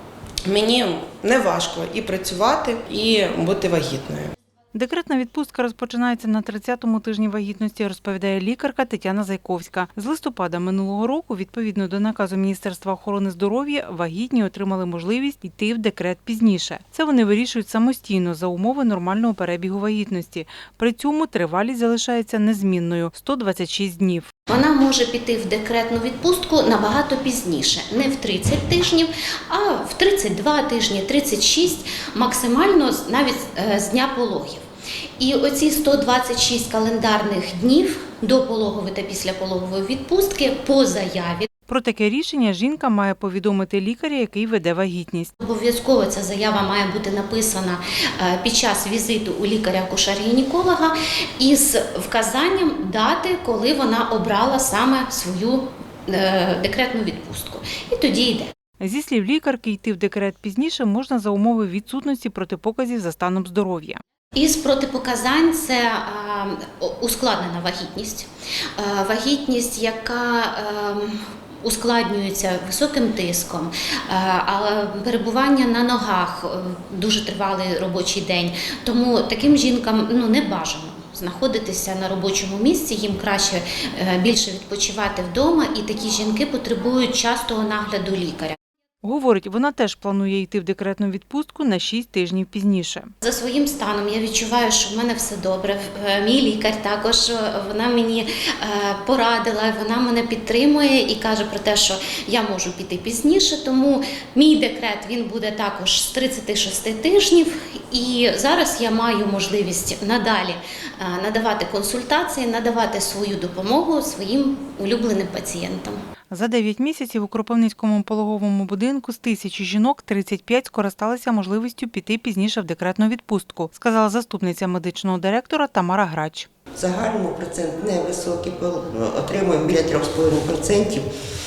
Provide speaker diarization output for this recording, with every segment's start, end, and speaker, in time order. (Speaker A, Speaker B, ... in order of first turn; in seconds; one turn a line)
Speaker A: 0.5-4.3
Speaker B: 4.7-24.3
Speaker C: 24.5-34.6
Speaker C: 35.2-41.5
Speaker B: 41.7-45.3
Speaker C: 45.4-58.5
Speaker B: 58.8-64.0
Speaker C: 64.3-88.6
Speaker B: 89.0-93.1
Speaker C: 93.2-116.0
Speaker B: 116.3-126.5
Speaker D: 126.8-131.1